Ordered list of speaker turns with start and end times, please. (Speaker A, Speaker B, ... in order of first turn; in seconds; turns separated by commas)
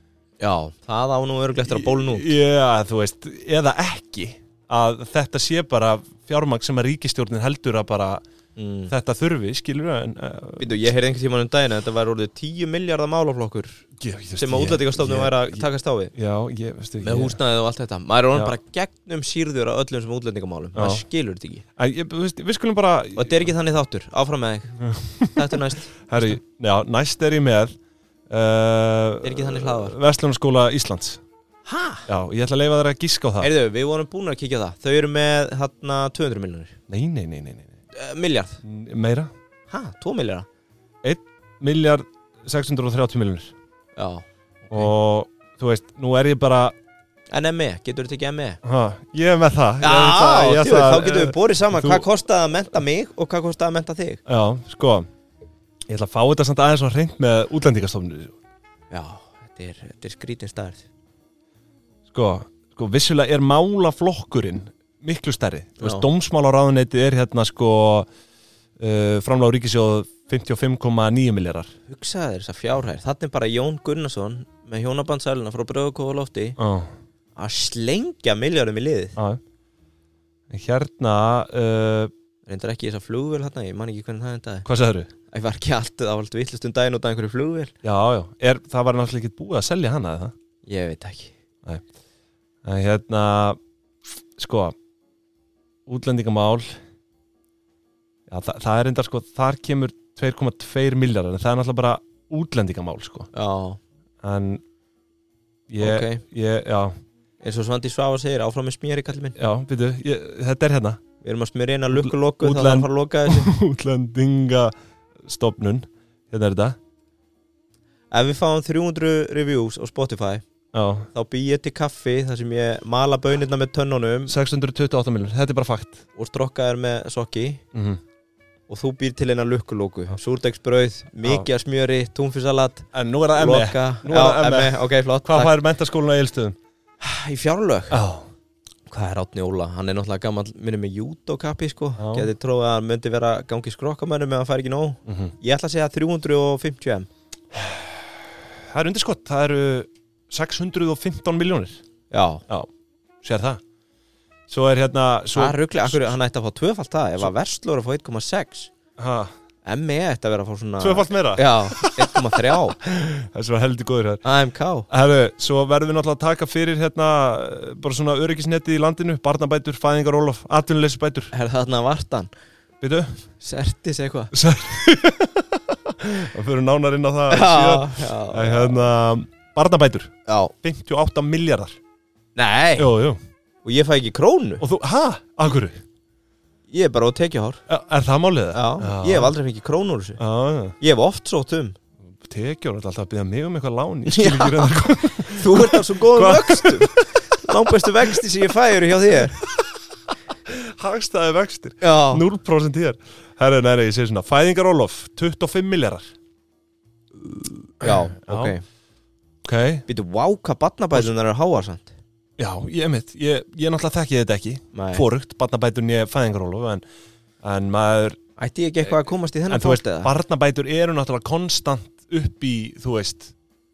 Speaker A: 0.4-2.3, Speaker B: 1.6-8.2, Speaker A: 8.6-8.9, Speaker B: 8.9-10.8, Speaker A: 10.6-13.8, Speaker B: 14.0-17.4, Speaker A: 14.4-16.1, Speaker A: 17.0-21.6, Speaker B: 20.7-21.0, Speaker B: 21.8-23.5, Speaker A: 23.1-24.8, Speaker B: 24.8-27.7, Speaker A: 25.3-26.4, Speaker B: 28.3-31.2, Speaker A: 29.2-30.0, Speaker A: 31.6-32.0, Speaker B: 32.1-33.5, Speaker A: 33.4-36.7, Speaker B: 36.9-37.7, Speaker A: 37.9-38.6, Speaker B: 38.6-39.3, Speaker A: 39.7-40.5, Speaker B: 41.0-43.5, Speaker A: 44.0-44.9, Speaker B: 44.7-46.7, Speaker A: 47.3-48.6, Speaker B: 48.6-52.0, Speaker A: 49.8-54.2, Speaker B: 54.2-55.1, Speaker B: 55.9-58.3, Speaker A: 58.9-60.9, Speaker B: 62.1-68.1, Speaker A: 65.8-66.0, Speaker B: 68.8-71.7, Speaker A: 71.9-76.6, Speaker B: 76.6-76.9, Speaker A: 77.3-79.2, Speaker B: 79.2-79.4, Speaker B: 80.5-82.1, Speaker A: 82.5-84.7, Speaker B: 84.6-85.1, Speaker A: 85.3-87.7, Speaker B: 87.8-90.3, Speaker A: 90.7-91.3, Speaker B: 92.6-93.6, Speaker B: 94.3-94.8, Speaker B: 95.8-96.8, Speaker B: 98.3-103.3, Speaker A: 103.3-103.8, Speaker B: 104.2-104.6, Speaker B: 105.7-106.9, Speaker A: 105.8-106.2, Speaker A: 107.4-109.3, Speaker B: 109.3-111.0, Speaker A: 111.2-113.5, Speaker B: 111.9-116.8, Speaker A: 118.1-120.4, Speaker B: 120.7-121.1, Speaker A: 121.1-124.3, Speaker B: 124.3-126.0, Speaker A: 126.2-127.6, Speaker B: 127.7-128.0, Speaker A: 128.7-135.5, Speaker B: 131.2-131.5, Speaker B: 132.9-136.6, Speaker A: 137.0-138.0, Speaker B: 137.9-138.3, Speaker A: 138.9-147.1, Speaker B: 142.0-142.3, Speaker B: 145.1-145.3, Speaker B: 147.5-151.8, Speaker A: 152.1-152.4, Speaker B: 153.2-153.6, Speaker B: 154.5-156.2, Speaker A: 155.3-158.7, Speaker B: 159.0-159.3, Speaker A: 159.6-162.8, Speaker B: 160.8-164.2, Speaker A: 164.2-164.9, Speaker B: 164.9-171.3, Speaker A: 171.3-172.3, Speaker B: 172.8-173.2, Speaker A: 173.4-174.3, Speaker B: 174.3-181.8, Speaker A: 177.3-178.8, Speaker A: 180.3-180.5, Speaker A: 182.3-182.9, Speaker B: 182.8-183.2, Speaker A: 183.6-184.6, Speaker B: 184.6-185.8, Speaker A: 186.7-187.6, Speaker B: 187.7-189.3, Speaker A: 188.5-190.2, Speaker B: 190.2-190.8, Speaker A: 190.8-191.8, Speaker B: 192.2-198.2, Speaker A: 194.1-199.4, Speaker B: 199.1-206.1, Speaker A: 201.8-202.2, Speaker A: 207.2-208.6, Speaker B: 207.8-208.5, Speaker B: 209.4-209.8, Speaker A: 209.9-211.9, Speaker B: 212.4-216.8, Speaker A: 214.7-215.1, Speaker B: 217.4-218.2, Speaker A: 218.4-220.1, Speaker B: 219.5-223.3